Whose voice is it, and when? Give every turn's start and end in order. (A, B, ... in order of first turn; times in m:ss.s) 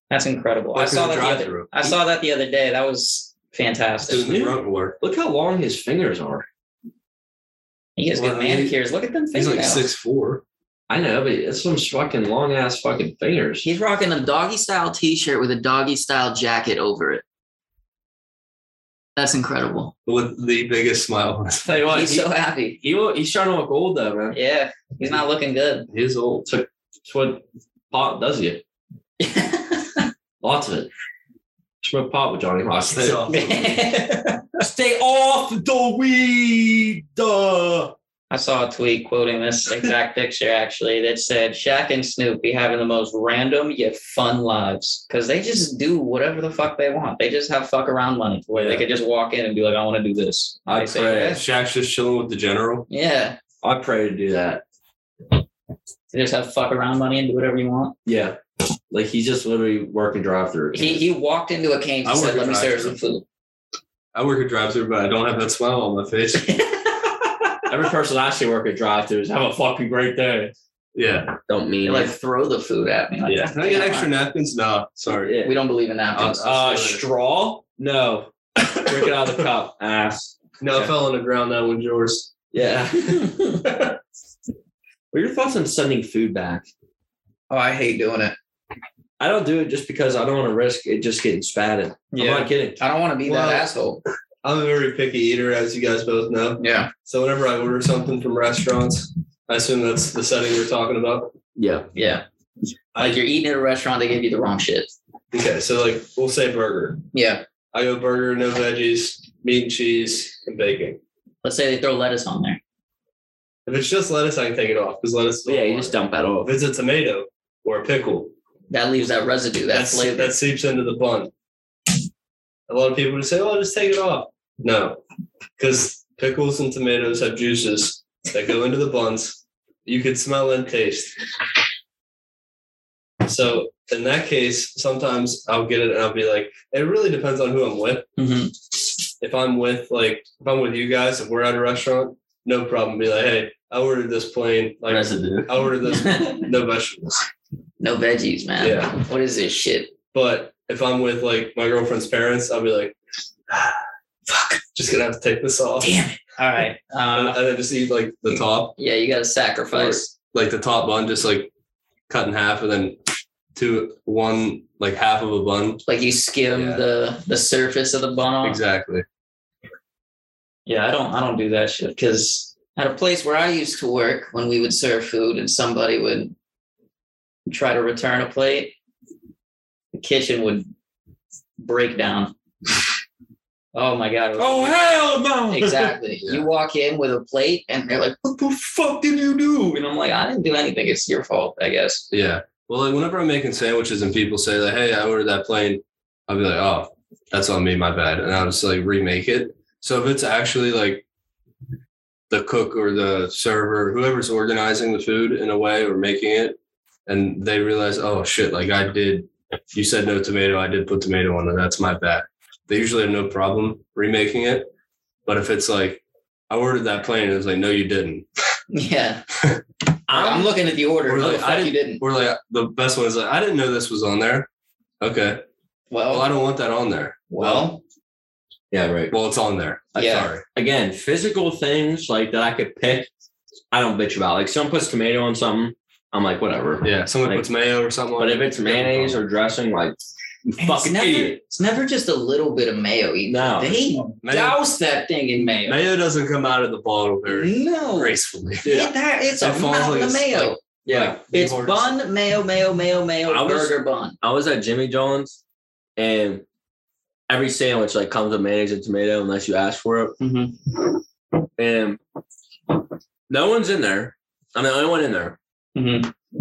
0:00.1-0:04.3 A
0:00.8-0:02.0 B
0:04.1-0:05.0 B
0:04.1-0:06.5 C
0:08.0-0:09.9 A
0:08.2-0:08.8 B
0:09.3-0:10.4 B
0:10.9-0:13.7 C
0:13.6-0:17.2 A
0:19.2-0:19.9 A
0:20.1-0:21.7 B
0:21.6-0:24.4 C
0:21.9-0:22.8 A
0:24.3-0:25.9 A
0:25.9-0:26.5 B
0:26.5-0:28.6 C
0:29.2-0:30.1 A
0:30.4-0:30.9 C
0:31.8-0:33.6 C
0:32.8-0:33.6 B
0:33.3-0:34.4 A
0:34.6-0:37.9 C
0:38.3-0:51.4 A
0:48.5-0:48.8 C
0:50.7-0:51.4 C
0:51.4-0:52.9 B
0:52.9-0:53.4 A
0:53.6-0:54.6 C
0:56.1-0:57.9 A
0:58.1-0:58.4 C
0:58.9-1:01.1 C
1:00.7-1:03.2 A
1:02.0-1:03.0 B
1:04.1-1:06.5 B
1:06.4-1:07.4 A
1:07.7-1:10.5 C
1:11.0-1:11.4 B
1:11.5-1:12.1 C
1:11.8-1:14.1 A
1:13.3-1:15.3 B
1:15.1-1:15.6 C
1:15.4-1:16.5 A
1:16.2-1:17.0 B
1:16.3-1:20.9 C
1:20.6-1:22.3 B
1:22.5-1:23.7 C
1:25.1-1:26.7 C
1:27.5-1:28.4 A
1:29.2-1:32.8 C
1:32.1-1:34.0 A
1:33.3-1:33.7 B
1:34.4-1:41.3 B
1:36.6-1:36.9 A
1:41.6-1:41.9 C
1:42.0-1:42.2 A
1:43.0-1:43.2 B
1:43.0-1:44.9 A
1:45.3-1:47.0 B
1:47.1-1:47.4 A
1:47.7-1:51.0 B
1:51.4-1:52.6 A
1:53.7-1:58.3 B
1:55.5-1:56.5 C
1:58.7-2:00.3 A
1:59.7-2:01.3 B
2:02.7-2:05.0 B
2:05.6-2:11.1 B
2:13.2-2:18.1 B
2:18.2-2:18.6 A
2:19.2-2:27.3 B
2:24.9-2:25.5 C
2:25.8-2:26.5 A
2:27.8-2:29.9 A
2:28.6-2:29.0 B
2:30.1-2:33.0 B
2:33.5-2:33.8 B
2:34.7-2:35.9 B
2:35.8-2:37.4 A
2:37.1-2:38.8 B
2:38.3-2:40.1 A
2:39.7-2:41.5 B
2:42.1-2:43.0 B
2:43.6-2:45.8 B
2:45.9-2:48.6 A
2:46.5-2:46.8 B
2:48.4-2:49.0 B
2:50.7-2:56.3 A
2:57.5-2:58.8 A
3:00.0-3:00.7 A
3:01.6-3:02.3 A
3:03.7-3:04.9 A
3:04.4-3:06.0 C
3:05.5-3:12.1 A
3:12.1-3:21.0 B
3:22.3-3:26.6 B
3:27.1-3:34.7 B
3:35.2-3:38.2 B
3:38.7-3:39.2 A
3:40.1-3:42.0 A
3:40.1-3:40.5 C
3:41.1-3:44.5 B
3:45.0-3:45.4 B
3:45.9-3:46.3 A
3:46.1-3:47.7 B
3:47.3-3:47.8 A
3:48.7-3:49.2 C
3:49.1-3:50.4 B
3:50.0-3:50.3 A
3:50.5-3:53.1 C
3:53.7-3:57.5 C
3:56.8-3:59.2 B
3:58.2-4:00.0 C
4:00.5-4:01.4 C
4:00.6-4:05.8 A
4:03.3-4:03.8 C
4:04.2-4:04.6 B
4:05.6-4:11.9 B
4:07.3-4:10.6 A
4:10.9-4:11.2 C
4:11.3-4:14.2 A
4:13.3-4:15.4 C
4:16.0-4:16.4 C
4:17.3-4:20.2 C
4:20.2-4:20.7 A
4:21.6-4:22.0 C
4:23.3-4:25.4 C
4:25.8-4:26.1 A